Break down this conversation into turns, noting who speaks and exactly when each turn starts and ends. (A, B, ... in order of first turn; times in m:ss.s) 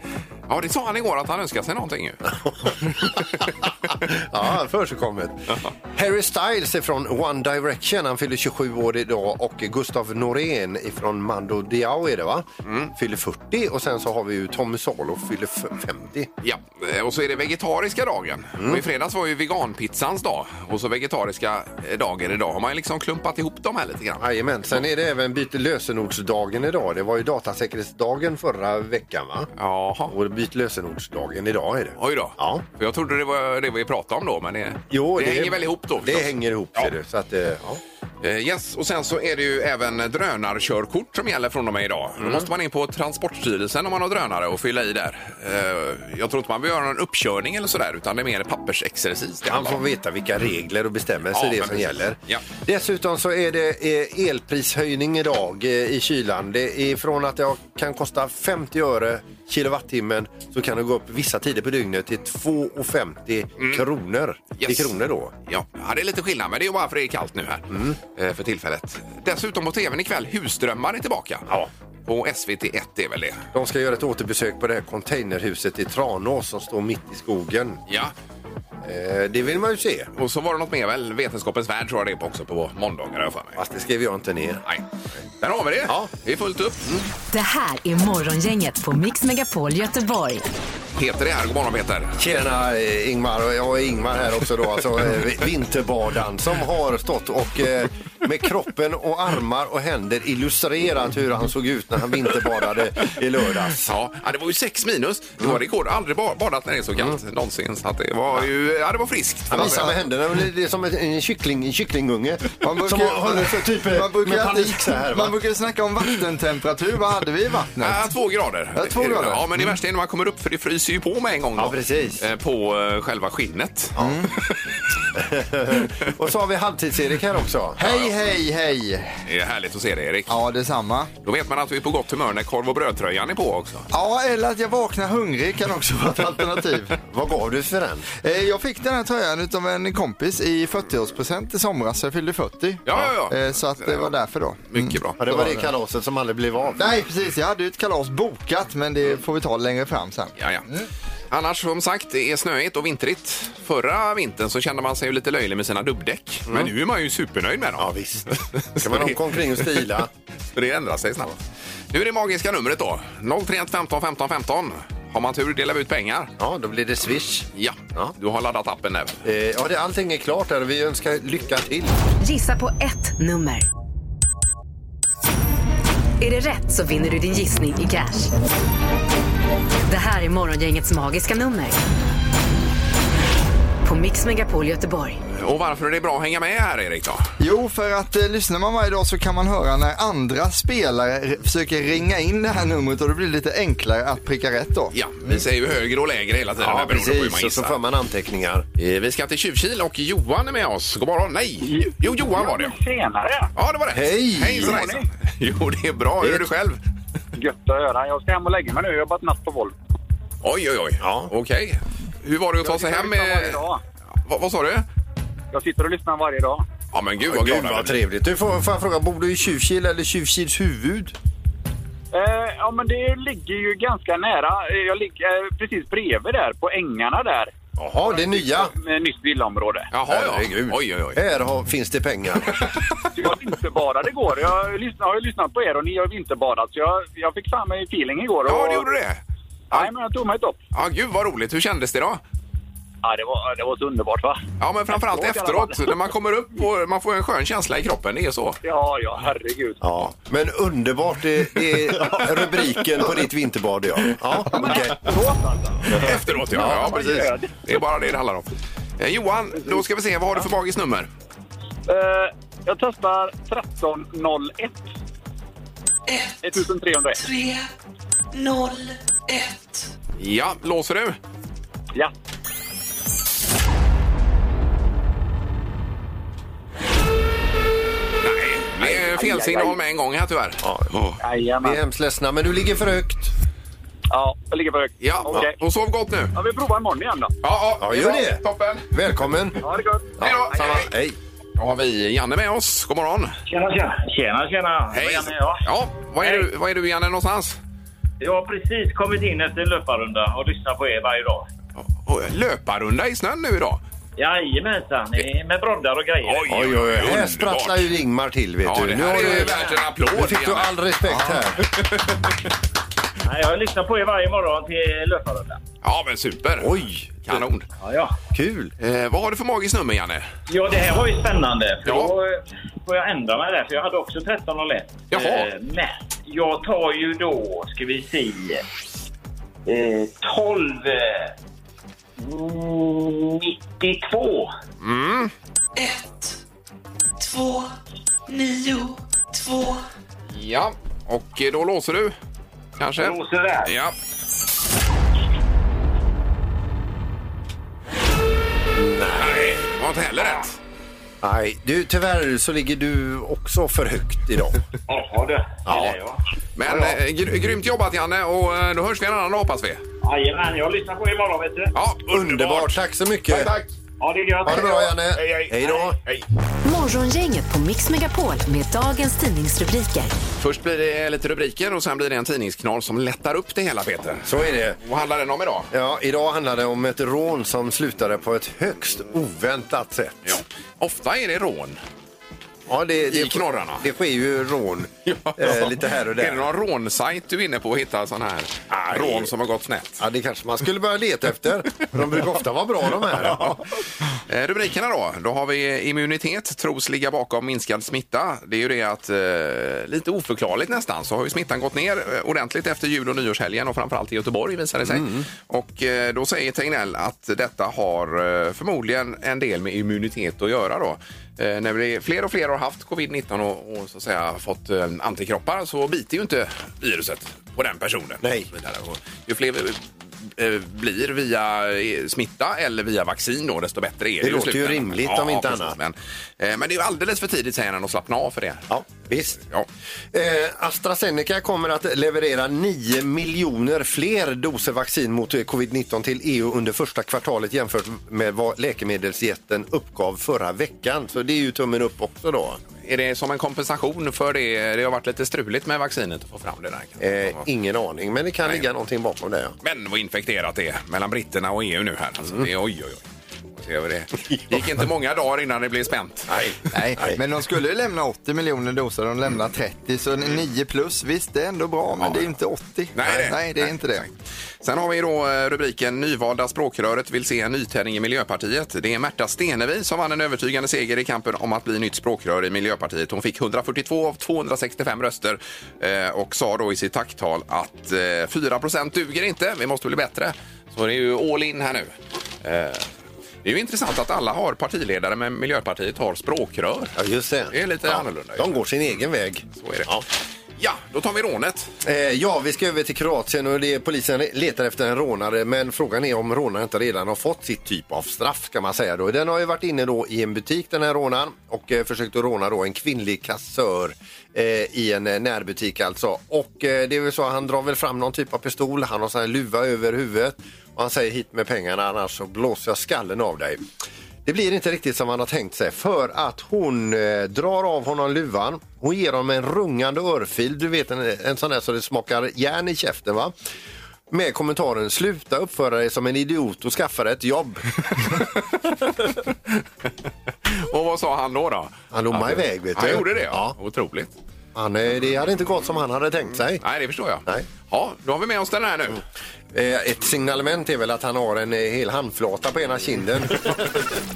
0:00.5-0:02.3 A
0:02.2-0:16.3 B
0:12.6-0:12.9 A
0:16.4-0:24.3 A
0:18.6-0:18.8 B
0:24.2-0:29.5 B
0:29.6-0:30.1 A
0:30.1-0:32.6 B
0:32.0-0:36.9 A
0:34.9-0:37.8 B
0:38.2-0:49.8 A
0:42.2-0:42.5 B
0:49.5-1:05.3 B
0:51.3-0:52.4 A
1:03.6-1:03.8 A
1:04.6-1:05.0 A
1:05.5-1:11.5 A
1:07.7-1:08.0 B
1:12.0-1:13.4 A
1:13.5-1:17.8 B
1:17.9-1:18.1 A
1:18.8-1:20.1 B
1:20.2-1:23.6 A
1:23.6-1:24.6 B
1:25.4-1:26.9 A
1:25.8-1:26.1 B
1:27.3-1:30.4 C
1:31.0-1:32.2 A
1:32.2-1:43.9 B
1:43.8-1:49.9 A
1:49.5-1:55.4 B
1:49.6-1:49.9 D
1:52.6-1:58.1 D
1:57.8-2:03.9 A
1:58.7-1:59.4 D
2:01.6-2:02.2 B
2:04.0-2:04.3 B
2:04.0-2:04.3 D
2:05.2-2:07.9 B
2:07.8-2:09.1 D
2:07.8-2:08.1 A
2:09.2-2:10.3 A
2:10.3-2:11.1 D
2:11.2-2:13.9 A
2:13.9-2:17.0 D
2:17.0-2:18.1 B
2:18.2-2:25.7 D
2:22.8-2:24.1 A
2:24.7-2:25.2 A
2:25.2-2:26.8 B
2:26.8-2:30.3 D
2:30.4-2:30.6 A
2:31.3-2:39.8 A
2:37.8-2:40.1 B
2:40.5-2:41.4 A
2:41.9-2:46.3 A
2:46.4-2:48.1 B
2:47.5-2:49.2 A
2:49.2-2:51.9 B
2:52.2-2:53.7 C
2:56.2-2:58.3 C
2:59.9-3:01.8 C
3:03.8-3:05.2 C
3:05.4-3:07.3 A
3:07.4-3:14.9 D
3:14.9-3:17.7 A
3:16.6-3:18.7 B
3:18.8-3:22.7 A
3:21.7-3:23.5 E
3:23.6-3:26.8 A
3:23.9-3:24.8 B
3:24.6-3:25.0 E
3:27.4-3:29.7 E
3:30.4-3:33.6 A
3:31.0-3:31.3 B
3:32.6-3:33.8 E
3:34.2-3:34.9 A
3:35.5-3:36.6 E
3:36.9-3:38.0 A
3:37.3-3:41.1 B
3:42.1-3:47.5 E
3:47.8-3:48.7 B
3:48.0-3:49.9 E
3:49.9-3:51.2 A
3:50.0-3:52.6 B
3:53.1-3:58.9 E
3:58.4-3:59.9 A
3:59.7-4:00.6 E
4:00.7-4:02.2 A
4:03.0-4:04.4 E
4:04.6-4:08.6 A
4:04.9-4:05.9 E
4:08.6-4:09.8 E
4:09.8-4:15.0 B
4:14.5-4:17.6 E
4:15.9-4:21.1 A
4:16.5-4:16.9 B
4:21.9-4:24.9 E
4:26.1-4:27.7 F
4:26.4-4:27.2 E
4:28.3-4:29.9 F
4:30.2-4:31.2 A
4:38.2-4:41.2 A
4:38.8-4:39.8 E
4:40.6-4:40.9 B
4:41.2-4:41.8 E
4:41.6-4:43.3 B
4:44.1-4:45.5 E
4:45.0-4:46.3 A
4:46.3-4:47.3 E
4:47.4-4:48.9 A
4:47.8-4:49.6 B
4:49.6-4:50.7 E
4:50.2-4:51.2 B
4:50.2-4:50.9 A
4:51.6-4:53.4 A
4:53.4-4:55.7 G
4:54.9-4:57.6 A
4:56.2-4:56.5 G
4:58.2-5:01.5 G
5:01.8-5:03.8 A
5:04.2-5:06.7 G
5:06.2-5:07.9 A
5:06.5-5:11.7 B
5:08.6-5:12.2 A
5:09.0-5:09.8 G
5:13.2-5:15.6 G
5:15.8-5:16.7 A
5:16.6-5:17.4 B
5:17.2-5:17.6 A
5:17.8-5:18.2 G
5:18.3-5:18.7 B
5:18.8-5:20.3 A
5:20.5-5:28.6 G
5:21.8-5:22.1 A
5:25.1-5:25.5 A
5:29.6-5:31.3 G
5:32.2-5:34.5 G
5:34.8-5:35.3 A
5:35.7-5:36.4 F
5:37.2-5:37.7 F
5:38.3-5:39.8 F
5:40.3-5:42.1 A
5:42.8-5:43.9 A
5:43.0-5:43.7 G
5:48.7-5:49.5 B
5:49.1-5:50.5 A
5:51.2-5:54.6 B
5:54.9-5:56.2 G
5:55.7-5:56.0 A
5:56.6-5:59.8 A
5:56.6-5:57.0 B
6:00.0-6:01.7 G
6:01.7-6:03.7 A
6:02.1-6:03.5 B
6:04.0-6:05.0 G
6:04.4-6:06.0 B
6:04.4-6:06.2 A
6:06.6-6:10.1 C
6:10.4-6:15.7 A
6:14.2-6:14.8 B
6:15.7-6:20.4 B
6:20.2-6:21.8 A
6:22.7-6:26.5 B
6:23.1-6:23.8 A
6:25.1-6:30.0 A
6:28.7-6:29.3 B
6:30.0-6:33.6 B
6:33.0-6:33.6 A
6:34.3-7:08.7 A
6:44.8-6:45.2 B
6:58.2-6:58.5 B
7:04.2-7:05.8 B
7:08.7-7:09.4 B
7:09.4-7:09.7 A
7:10.1-7:22.6 B
7:22.8-7:27.4 A
7:27.0-7:29.6 B
7:29.6-7:33.0 A
7:33.6-7:36.5 A
7:36.3-7:37.2 B
7:36.7-7:44.0 D
7:42.0-7:42.3 A
7:42.9-8:02.9 A
8:03.4-8:06.9 A
8:07.0-8:10.0 B
8:07.5-8:08.6 A
8:09.6-8:10.0 A
8:10.6-8:11.7 A
8:11.8-8:33.6 B
8:34.2-8:43.3 B
8:44.1-8:48.0 B
8:50.4-8:54.1 A
8:51.9-8:53.6 B
8:54.5-8:56.6 B
8:56.6-8:59.0 A
8:59.5-9:03.8 B